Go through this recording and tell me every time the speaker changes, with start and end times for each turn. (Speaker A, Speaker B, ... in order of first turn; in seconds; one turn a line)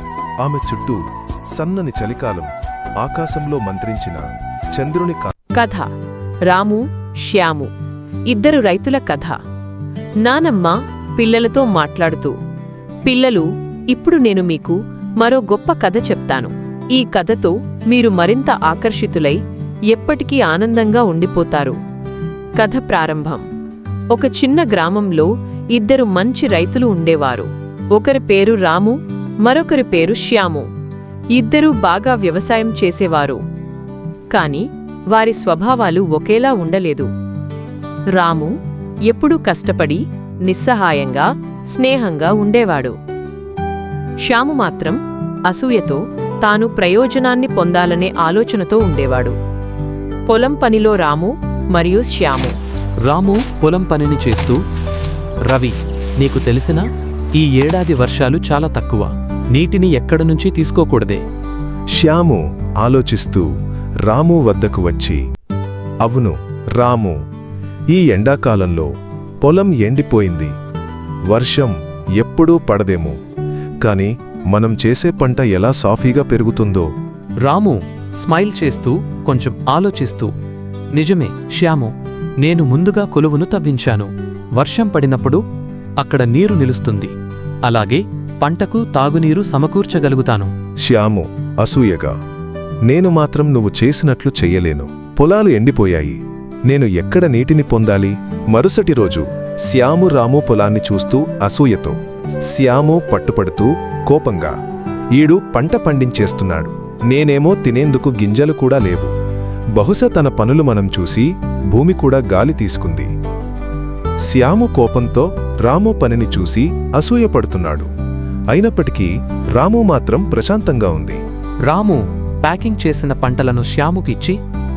Speaker A: 0.4-5.3
Speaker B: 5.5-5.9
Speaker B: 6.5-7.7
Speaker B: 8.3-9.4
Speaker B: 10.2-12.3
Speaker B: 13.1-21.8
Speaker B: 22.6-23.4
Speaker B: 24.1-30.7
Speaker B: 31.3-33.4
Speaker B: 34.3-37.1
Speaker B: 38.1-38.5
Speaker B: 39.0-43.0
Speaker B: 44.2-49.3
Speaker B: 50.3-52.5
Speaker C: 53.0-54.6
Speaker C: 55.5-56.9
Speaker C: 57.4-61.2
Speaker A: 61.9-63.5
Speaker A: 64.0-65.2
Speaker A: 66.0-67.2
Speaker A: 67.9-70.5
Speaker A: 71.3-73.2
Speaker A: 73.8-76.9
Speaker C: 77.4-80.3
Speaker C: 80.9-85.4
Speaker C: 86.0-87.1
Speaker C: 87.6-90.5
Speaker A: 90.8-92.2
Speaker A: 92.8-104.5
Speaker A: 105.1-109.1
Speaker A: 109.7-113.1
Speaker A: 114.2-117.9
Speaker A: 118.5-121.2
Speaker C: 121.7-124.4